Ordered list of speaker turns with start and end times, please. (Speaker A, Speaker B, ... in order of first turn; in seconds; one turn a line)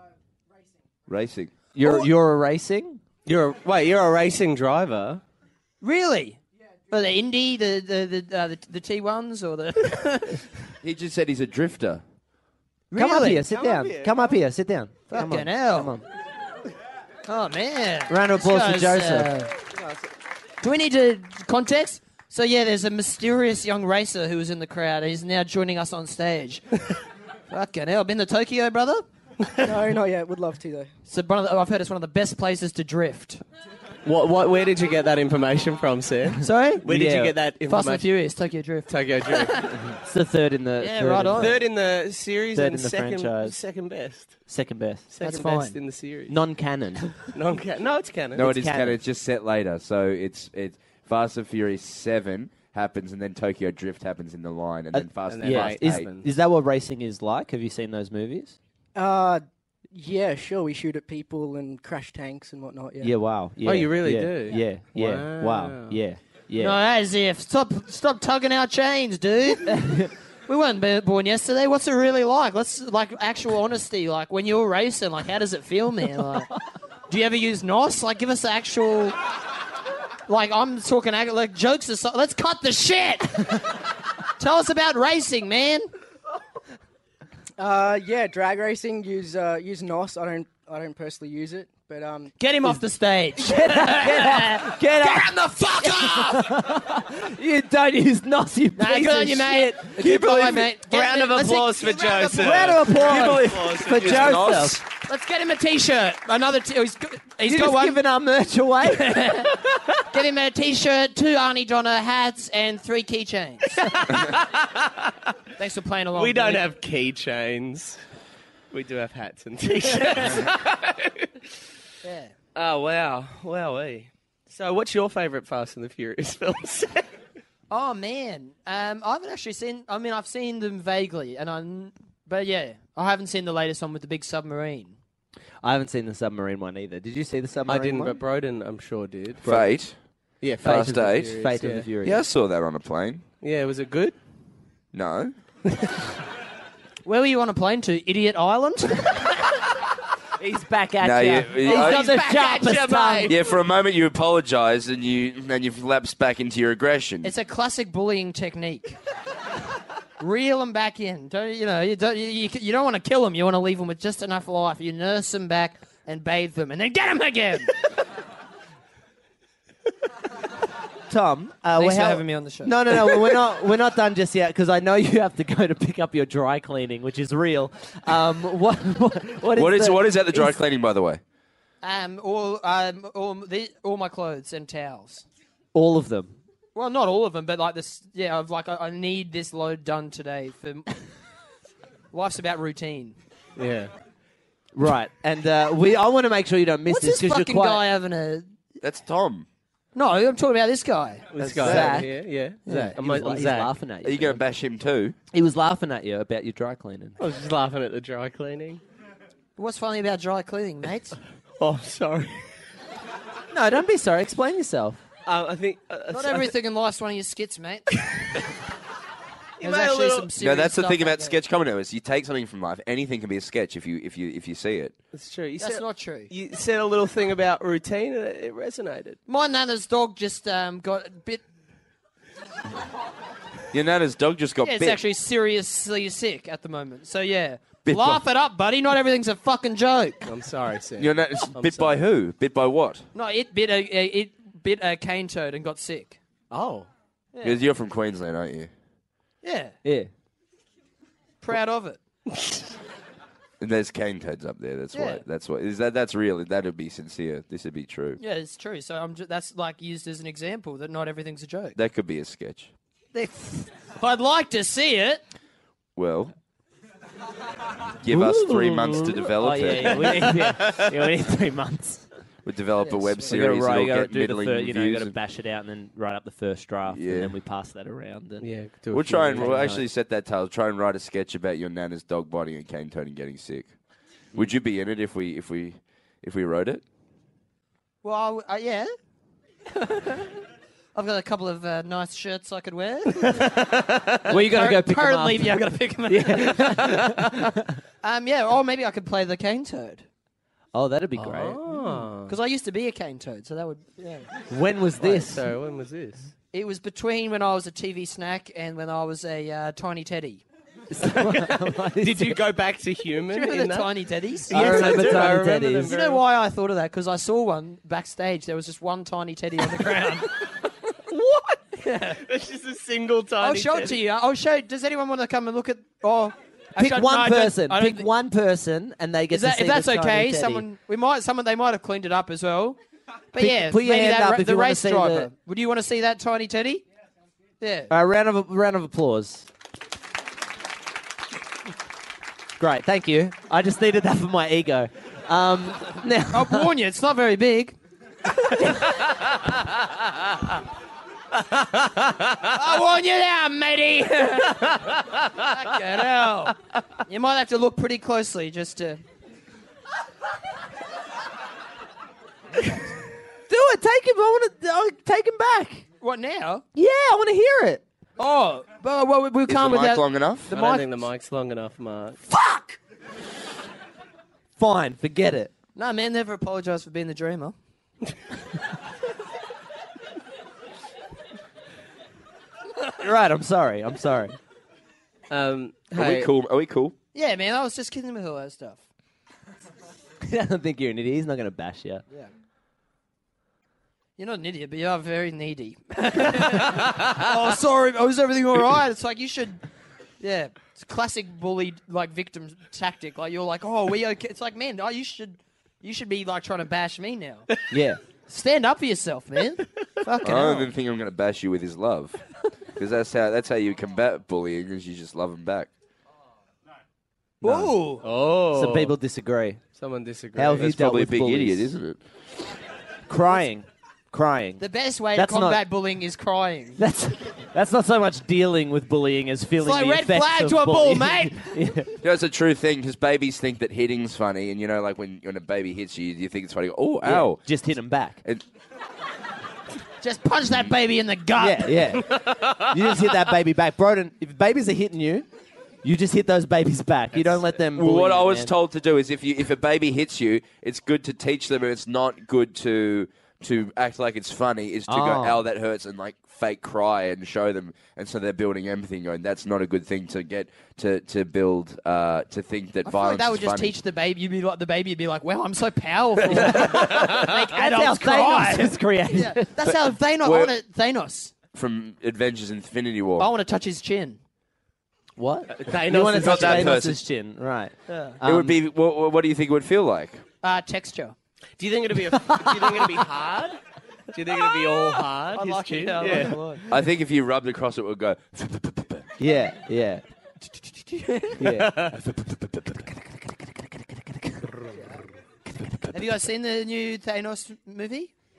Speaker A: 1.1-1.5
Speaker B: 1.7-3.0
Speaker C: 3.3-5.2
Speaker D: 5.8-6.4
Speaker D: 6.9-10.6
Speaker A: 10.8-12.0
Speaker D: 12.9-13.5
Speaker B: 12.9-16.1
Speaker C: 13.5-14.2
Speaker D: 15.1-16.0
Speaker D: 17.3-19.5
Speaker B: 18.1-19.3
Speaker D: 20.6-26.6
Speaker D: 27.5-29.0
Speaker E: 29.6-30.9
Speaker D: 31.1-33.4
Speaker C: 34.0-38.1
Speaker D: 36.4-36.8
Speaker B: 36.9-37.4
Speaker D: 37.7-39.8
Speaker C: 38.9-39.9
Speaker B: 40.0-41.6
Speaker D: 40.8-41.6
Speaker C: 41.4-44.5
Speaker B: 42.5-43.6
Speaker B: 44.5-45.1
Speaker C: 45.1-46.4
Speaker D: 45.2-45.8
Speaker B: 46.3-47.2
Speaker C: 47.2-48.5
Speaker B: 48.4-49.0
Speaker A: 48.4-56.1
Speaker B: 54.9-58.6
Speaker C: 55.3-56.3
Speaker E: 59.0-63.1
Speaker B: 63.0-66.8
Speaker C: 63.6-66.0
Speaker D: 66.6-76.5
Speaker B: 69.7-70.1
Speaker D: 77.1-79.2
Speaker D: 80.3-83.8
Speaker D: 84.4-85.9
Speaker E: 87.6-92.3
Speaker D: 92.4-96.4
Speaker B: 93.4-100.6
Speaker D: 98.8-102.8
Speaker C: 100.4-104.6
Speaker B: 102.3-104.8
Speaker A: 103.0-104.8
Speaker D: 105.0-108.0
Speaker B: 107.4-109.2
Speaker D: 108.9-114.0
Speaker C: 113.9-115.1
Speaker D: 115.6-116.7
Speaker C: 116.2-118.0
Speaker C: 118.7-121.3
Speaker D: 120.0-120.4
Speaker D: 122.0-122.3
Speaker C: 122.5-127.1
Speaker D: 127.7-135.0
Speaker B: 135.6-138.2
Speaker C: 137.7-139.7
Speaker A: 139.4-140.0
Speaker C: 140.4-141.9
Speaker B: 140.6-142.2
Speaker A: 140.6-141.3
Speaker A: 142.0-143.2
Speaker C: 143.4-144.2
Speaker A: 144.9-145.4
Speaker D: 147.1-149.6
Speaker B: 150.4-153.3
Speaker A: 151.0-152.1
Speaker D: 151.7-152.7
Speaker C: 151.7-153.4
Speaker A: 153.3-157.3
Speaker D: 157.2-159.0
Speaker D: 160.2-167.7
Speaker B: 171.1-180.6
Speaker D: 171.8-173.3
Speaker A: 179.6-181.2
Speaker D: 181.8-185.3
Speaker B: 185.7-186.4
Speaker D: 186.8-191.0
Speaker D: 192.1-193.2
Speaker C: 193.6-193.9
Speaker B: 194.7-197.8
Speaker D: 196.9-198.5
Speaker A: 198.8-199.5
Speaker D: 199.9-201.9
Speaker C: 201.3-203.7
Speaker B: 201.4-204.4
Speaker D: 202.7-202.9
Speaker A: 204.0-205.2
Speaker B: 205.3-207.2
Speaker C: 207.2-208.8
Speaker D: 209.6-211.2
Speaker C: 211.6-212.4
Speaker B: 213.5-215.0
Speaker C: 215.3-216.5
Speaker D: 216.1-217.9
Speaker C: 219.6-220.3
Speaker D: 219.6-221.4
Speaker A: 220.4-224.9
Speaker C: 225.1-229.2
Speaker D: 225.6-226.3
Speaker D: 229.3-231.4
Speaker A: 233.7-235.0
Speaker D: 234.6-240.2
Speaker A: 237.8-238.2
Speaker C: 240.2-242.0
Speaker A: 241.0-243.1
Speaker D: 243.2-246.2
Speaker C: 246.5-246.9
Speaker A: 247.4-248.7
Speaker D: 249.4-249.8
Speaker B: 249.8-250.1
Speaker D: 251.4-252.0
Speaker A: 253.6-258.2
Speaker D: 254.9-255.2
Speaker D: 258.2-261.8
Speaker A: 261.8-262.7
Speaker D: 263.1-265.2
Speaker A: 266.0-266.3
Speaker A: 268.0-270.4
Speaker B: 268.1-272.1
Speaker A: 272.4-275.1
Speaker D: 272.8-273.2
Speaker B: 273.2-278.5
Speaker A: 276.9-277.3
Speaker C: 278.4-279.6
Speaker A: 278.9-283.7
Speaker B: 279.2-279.9
Speaker A: 284.3-286.8
Speaker D: 288.0-288.9
Speaker D: 289.8-290.3
Speaker D: 290.9-293.6
Speaker D: 294.2-297.5
Speaker B: 294.3-297.8
Speaker D: 298.0-300.1
Speaker B: 300.7-302.0
Speaker C: 301.2-302.4
Speaker D: 302.3-304.3
Speaker B: 304.5-305.5
Speaker C: 305.0-306.3
Speaker D: 306.5-310.4
Speaker B: 310.9-312.4
Speaker C: 311.1-316.2
Speaker D: 313.3-315.3
Speaker B: 314.5-315.9
Speaker D: 315.9-320.3
Speaker C: 321.1-321.6
Speaker D: 321.8-322.2
Speaker C: 322.2-324.0
Speaker D: 323.4-328.1
Speaker B: 326.8-330.7
Speaker D: 329.3-332.8
Speaker D: 333.3-336.8
Speaker B: 333.4-335.3
Speaker D: 337.6-337.9
Speaker B: 337.9-339.5
Speaker B: 342.6-346.7
Speaker D: 346.3-347.8
Speaker C: 351.8-352.1
Speaker D: 352.5-359.0
Speaker B: 363.5-365.9
Speaker D: 366.0-366.6
Speaker B: 366.8-367.8
Speaker D: 368.2-370.9
Speaker A: 369.5-370.5
Speaker C: 370.5-372.2
Speaker B: 374.6-375.5
Speaker D: 375.8-377.6
Speaker B: 383.0-384.4
Speaker C: 385.3-386.3
Speaker A: 385.9-386.9
Speaker D: 387.1-388.8
Speaker B: 390.2-392.0
Speaker D: 394.2-399.6
Speaker D: 400.2-407.5
Speaker B: 407.7-408.0
Speaker D: 408.3-410.7
Speaker A: 410.2-412.2
Speaker A: 412.8-415.7
Speaker B: 417.4-417.8
Speaker D: 417.4-418.0
Speaker C: 418.0-418.9
Speaker B: 418.5-419.6
Speaker C: 419.8-420.7
Speaker B: 420.4-421.7
Speaker A: 420.6-422.0
Speaker B: 423.1-424.6
Speaker D: 424.6-426.8
Speaker B: 425.1-425.6
Speaker B: 426.8-431.9
Speaker D: 429.6-431.5
Speaker A: 432.0-437.4
Speaker B: 437.0-438.2
Speaker D: 440.0-441.9
Speaker B: 441.4-445.3
Speaker C: 442.1-442.8
Speaker B: 445.8-448.5
Speaker C: 447.1-447.4
Speaker A: 447.7-463.8
Speaker B: 454.9-455.4
Speaker D: 462.9-471.3
Speaker B: 466.3-469.5
Speaker A: 469.7-470.5
Speaker A: 471.5-473.3
Speaker D: 473.2-474.2
Speaker B: 475.2-478.6
Speaker C: 475.5-476.8
Speaker A: 476.2-477.0
Speaker D: 477.9-478.2
Speaker A: 478.2-480.2
Speaker D: 480.4-481.1
Speaker C: 481.6-483.6
Speaker B: 482.1-483.1
Speaker C: 484.1-486.6
Speaker D: 485.3-486.6
Speaker A: 486.7-489.1
Speaker B: 489.2-490.0
Speaker D: 490.6-491.4
Speaker B: 491.4-494.6
Speaker C: 491.4-492.0
Speaker B: 495.5-496.0
Speaker D: 495.9-498.1